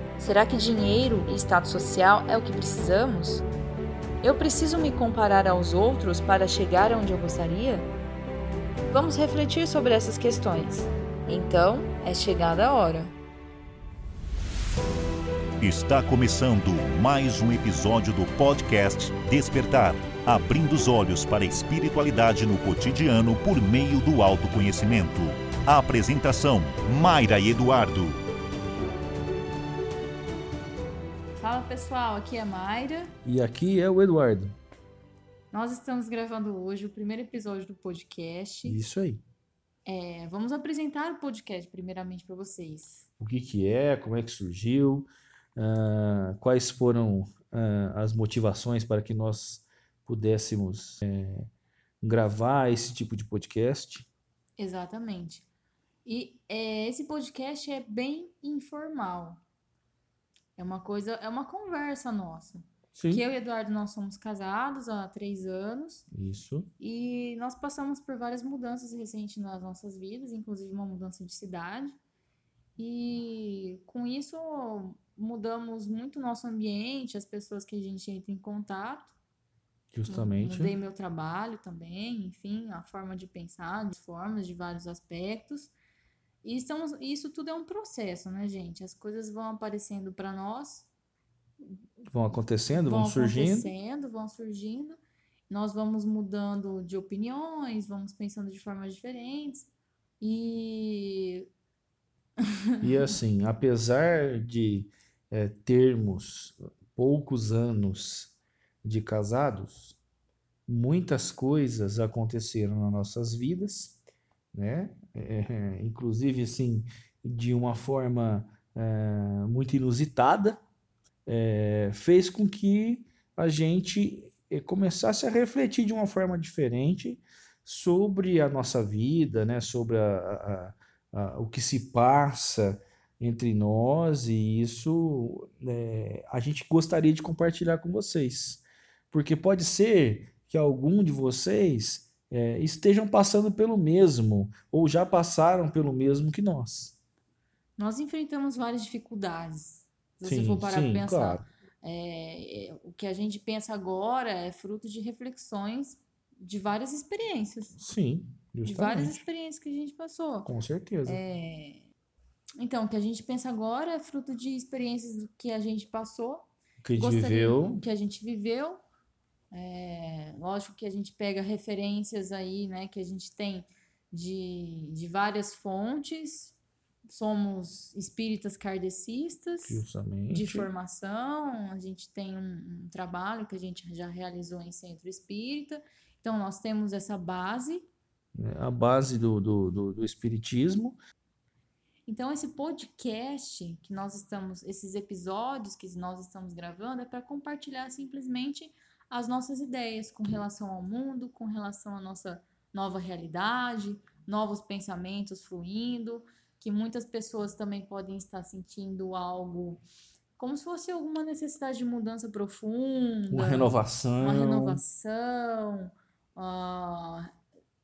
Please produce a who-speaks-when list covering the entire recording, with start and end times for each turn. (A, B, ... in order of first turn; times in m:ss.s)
0:00.2-0:03.4 A
0:04.2-0:07.9 A
0:08.9-0:13.1 A
0:15.6-0:28.2 B
0:31.4-0:33.1 A
0:33.2-0:34.6 C
0:35.5-0:38.8 A
0:38.6-0:39.2 C
0:39.8-0:43.0 A
0:43.2-0:51.5 C
0:52.0-0:54.1 C
0:54.6-0:55.4 A
0:56.0-0:59.4 A
1:00.6-1:06.0 A
1:02.9-1:03.2 C
1:06.1-1:06.7 C
1:06.8-1:12.0 A
1:12.8-1:19.1 A
1:19.9-1:20.7 C
1:20.1-1:25.7 A
1:26.4-1:30.9 A
1:32.1-1:33.7 C
1:32.7-1:35.0 A
1:35.5-1:39.7 A
1:40.2-1:41.5 A
1:42.5-1:43.1 A
1:42.8-1:50.0 C
1:50.7-1:54.0 C
1:54.5-2:00.6 C
2:01.2-2:27.0 C
2:27.8-2:37.8 A
2:30.2-2:31.4 C
2:37.8-2:39.2 C
2:38.6-2:40.5 A
2:40.4-2:41.2 C
2:41.0-2:41.9 A
2:42.6-2:48.8 A
2:46.8-2:47.8 C
2:49.5-2:56.5 A
2:57.1-3:07.9 A
2:59.6-3:00.7 C
3:08.3-3:11.0 C
3:12.1-3:29.8 A
3:30.4-3:37.3 A
3:33.3-3:34.8 C